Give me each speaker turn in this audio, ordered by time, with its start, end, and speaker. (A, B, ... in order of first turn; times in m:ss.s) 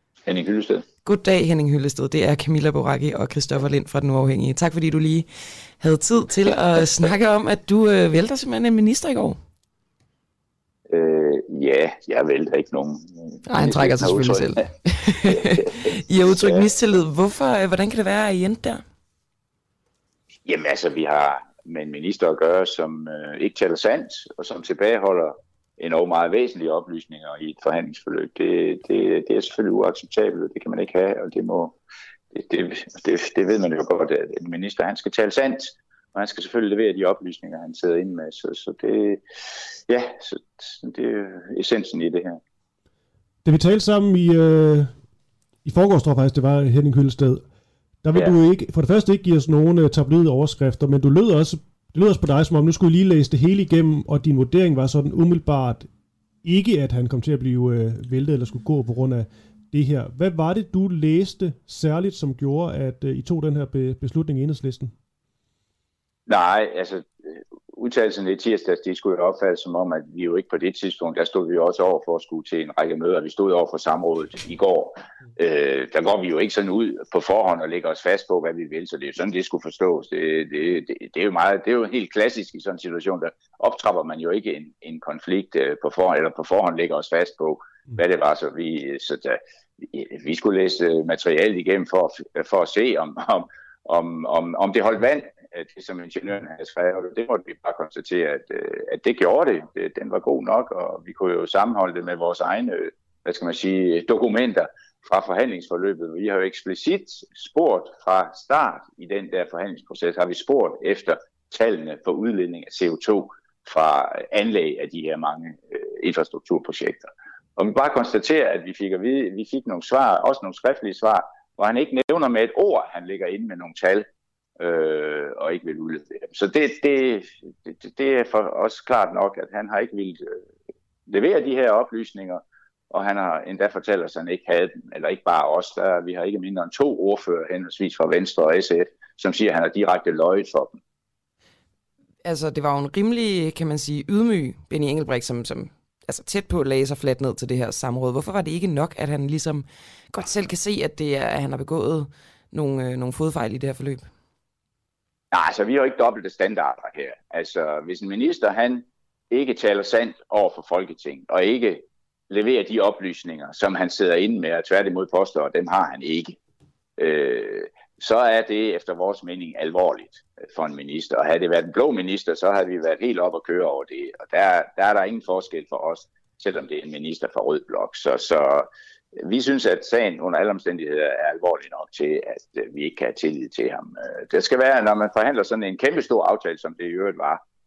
0:00.2-0:00.8 A
0:01.0-0:09.4 B
0:10.9-0:14.7 A
0:13.4-0:18.8 B
0:15.6-0:16.7 A
0:20.4-0:31.8 A
0:32.3-0:39.2 A
0:39.8-0:42.4 A
0:43.4-0:44.9 C
0:45.6-0:47.4 C
0:48.0-0:55.9 C
0:56.4-1:04.9 C
1:06.3-2:04.1 A
2:04.6-2:10.4 A
2:11.1-2:20.8 A
2:22.2-2:34.1 B
2:35.3-2:46.4 A
2:47.0-3:07.4 A